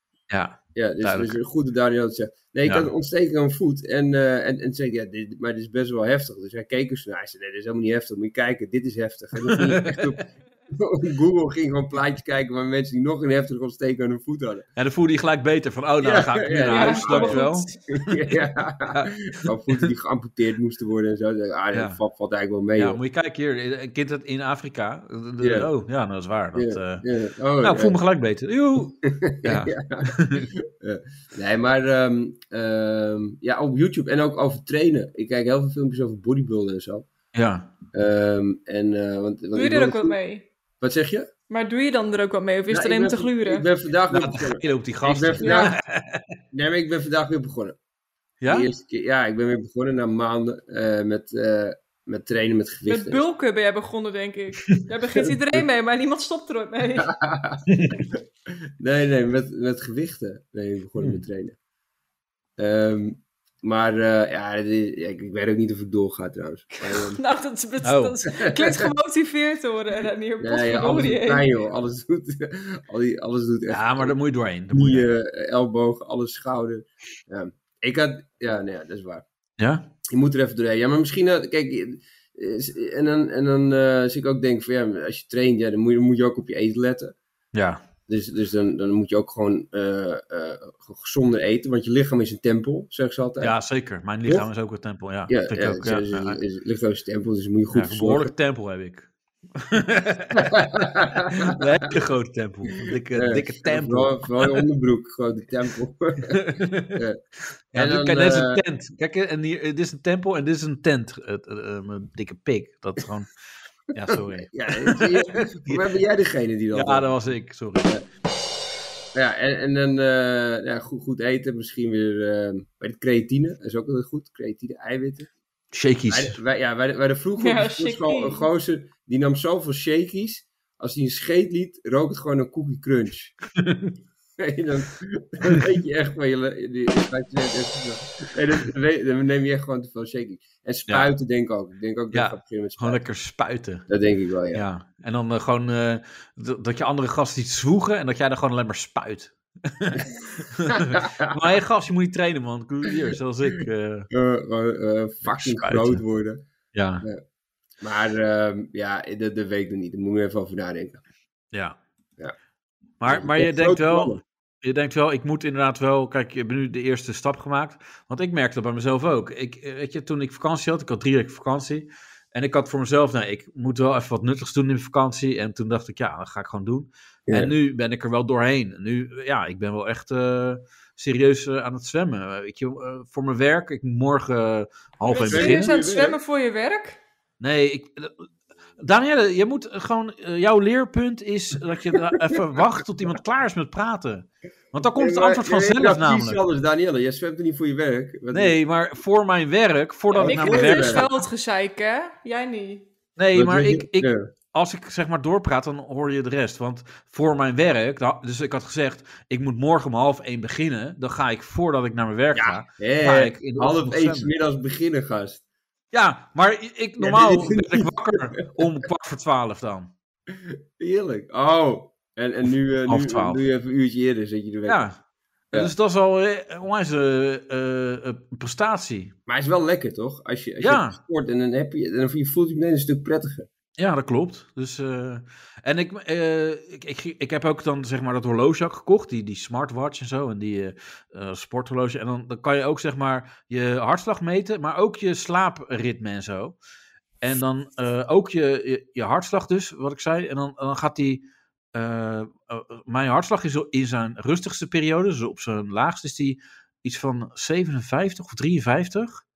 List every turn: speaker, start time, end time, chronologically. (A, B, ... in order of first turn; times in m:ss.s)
0:00.3-0:01.4 A
0:00.7-0:14.6 B
0:09.4-0:10.1 A
0:14.8-0:19.9 A
0:16.0-0:23.0 B
0:16.7-0:17.7 C
0:21.7-0:22.0 A
0:22.8-0:27.0 A
0:25.4-0:25.7 B
0:26.5-0:28.0 B
0:27.6-0:30.5 A
0:29.0-0:37.1 B
0:37.3-0:37.7 A
0:37.9-0:40.2 B
0:39.5-0:40.4 C
0:40.8-0:41.3 B
0:41.5-0:43.6 C
0:42.7-0:45.7 B
0:44.1-0:46.3 A
0:45.4-0:45.7 C
0:46.5-0:47.8 B
0:48.4-0:48.7 A
0:48.5-0:53.2 B
0:52.8-0:57.1 C
0:55.2-0:55.6 B
0:57.0-0:58.2 B
0:57.7-0:58.1 A
0:58.8-1:01.5 B
1:01.0-1:01.2 A
1:02.6-1:07.2 B
1:06.8-1:11.4 C
1:07.8-1:08.2 A
1:08.3-1:08.9 B
1:10.4-1:14.2 B
1:13.7-1:15.1 A
1:14.7-1:19.2 B
1:19.6-1:19.9 A
1:20.1-1:27.1 B
1:27.5-1:27.8 A
1:28.1-1:33.6 B
1:33.4-1:36.4 A
1:35.3-1:38.3 B
1:37.7-1:40.6 A
1:40.3-1:41.6 B
1:41.3-1:44.6 A
1:43.1-1:46.4 B
1:46.3-1:47.0 A
1:46.9-1:47.2 B
1:47.7-1:53.3 A
1:47.7-1:48.6 B
1:53.9-1:55.8 A
1:54.1-1:57.1 B
1:56.7-1:57.9 A
1:59.1-2:05.3 B
2:05.7-2:06.4 A
2:06.1-2:13.4 B
2:07.4-2:08.5 C
2:13.6-2:13.9 A
2:14.4-2:23.0 B
2:22.1-2:23.9 A
2:23.9-2:24.6 B
2:24.5-2:34.1 A
2:30.7-2:31.3 B
2:34.1-2:36.4 B
2:35.2-2:36.0 A
2:36.7-2:37.0 A
2:37.8-2:41.0 B
2:41.5-2:41.8 A
2:43.0-3:05.7 A
2:43.0-2:44.2 B
2:57.3-2:57.5 B
3:05.0-3:07.0 C
3:05.2-3:06.2 B
3:07.4-3:08.3 A
3:08.8-3:16.4 A
3:15.0-3:18.6 B
3:18.3-3:21.2 A
3:20.1-3:22.9 C
3:20.1-3:21.1 B
3:23.2-3:34.3 A
3:23.3-3:24.3 B
3:32.3-3:35.4 B
3:35.9-3:39.9 A
3:37.0-3:38.6 B
3:40.3-3:44.8 B
3:42.8-3:43.4 A
3:44.6-3:45.0 A
3:45.5-3:49.1 A
3:49.3-3:53.5 B
3:50.6-3:51.0 A
3:53.8-4:06.6 A
4:07.2-4:19.2 A